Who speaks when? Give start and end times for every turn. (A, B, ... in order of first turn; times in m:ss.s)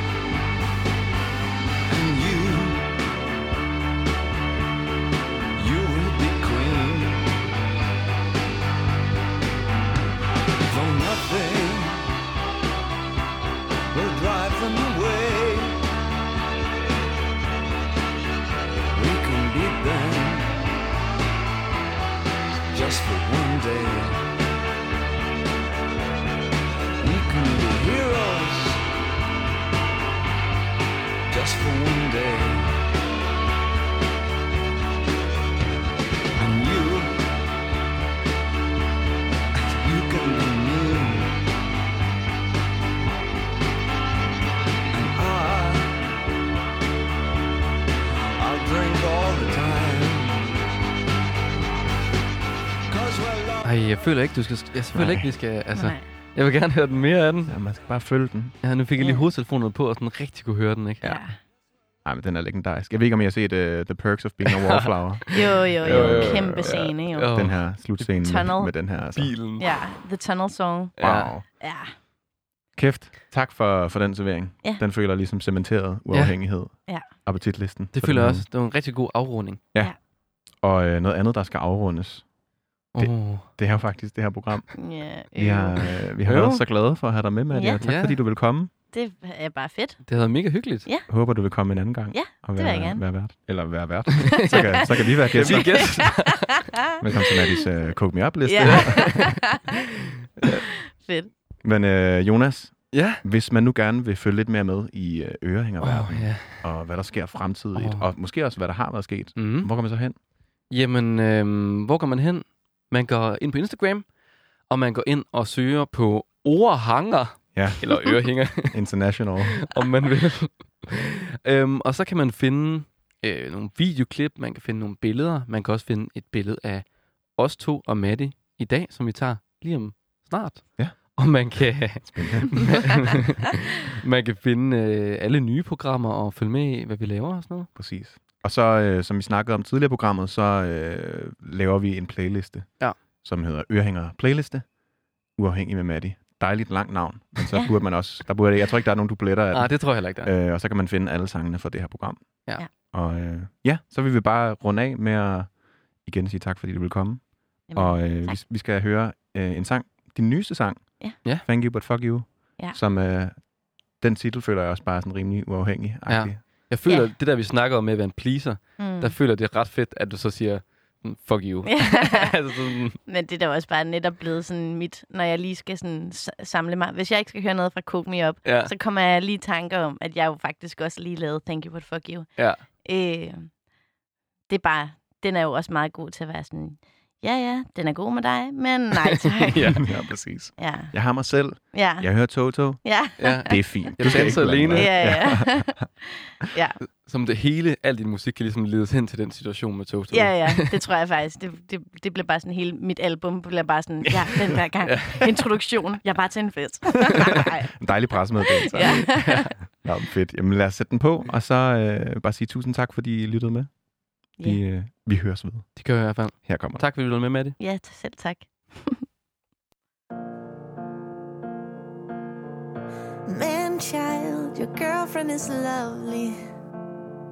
0:01.9-0:02.9 A
0:05.6-0:07.3 A
0:10.7-0:12.1 A
0:13.9-0:15.8 A
0:18.9-0:20.6 A
0:22.7-0:24.2 A
0:27.0-0:28.8 A
0:31.3-0:32.7 A
0:36.4-0:37.2 A
0:39.5-0:41.4 A
0:44.9-0:46.0 A
0:48.4-0:50.6 A
0:52.9-0:53.8 A
0:53.6-0:57.5 B
0:54.9-0:55.4 C
0:55.8-0:56.0 D
0:57.5-0:58.6 C
0:58.6-1:01.2 B
0:59.0-0:59.3 D
1:01.0-1:01.4 D
1:02.0-1:09.4 C
1:04.5-1:07.6 B
1:05.3-1:07.3 D
1:08.0-1:08.7 D
1:09.2-1:09.6 B
1:09.6-1:11.0 D
1:11.0-1:11.3 B
1:11.0-1:11.4 C
1:11.5-1:11.9 D
1:12.8-1:18.4 C
1:16.1-1:16.4 B
1:17.9-1:19.6 B
1:20.6-1:22.2 C
1:22.9-1:23.5 B
1:23.0-1:24.8 C
1:24.8-1:25.9 D
1:25.3-1:28.7 C
1:26.2-1:26.6 B
1:27.5-1:27.8 D
1:27.8-1:28.2 B
1:28.9-1:31.1 D
1:30.1-1:30.9 B
1:31.1-1:36.4 C
1:32.1-1:33.0 D
1:34.4-1:34.8 D
1:35.3-1:36.7 B
1:35.4-1:36.3 D
1:37.0-1:39.5 C
1:38.5-1:39.4 D
1:38.6-1:39.5 B
1:41.0-1:41.3 D
1:41.6-1:50.2 C
1:42.9-1:43.2 B
1:45.8-1:46.7 B
1:47.8-1:48.1 B
1:49.4-1:49.7 B
1:50.7-1:54.1 B
1:54.7-1:58.8 B
1:57.6-1:58.0 C
1:58.5-1:59.6 C
1:59.6-2:17.7 B
2:10.8-2:12.9 C
2:17.8-2:24.7 C
2:25.4-2:43.5 C
2:29.5-2:30.3 B
2:37.7-2:38.4 D
2:44.0-2:46.4 C
2:46.1-2:53.0 B
2:46.8-2:47.1 D
2:48.8-2:49.2 D
2:51.7-2:52.5 D
2:53.0-3:02.3 D
2:58.4-2:58.7 B
3:02.4-3:02.6 B
3:02.8-3:03.5 D
3:04.5-3:09.8 D
3:09.4-3:09.8 B
3:09.6-3:15.9 C
3:10.6-3:11.0 D
3:11.7-3:12.1 D
3:12.8-3:16.8 D
3:13.2-3:15.2 B
3:17.0-3:20.8 B
3:20.1-3:27.7 D
3:24.8-3:25.2 B
3:27.2-3:33.7 C
3:28.5-3:29.5 D
3:29.1-3:29.6 B
3:34.4-3:35.8 C
3:35.8-3:37.6 B
3:36.4-3:36.8 C
3:37.6-3:39.0 D
3:43.3-3:46.4 E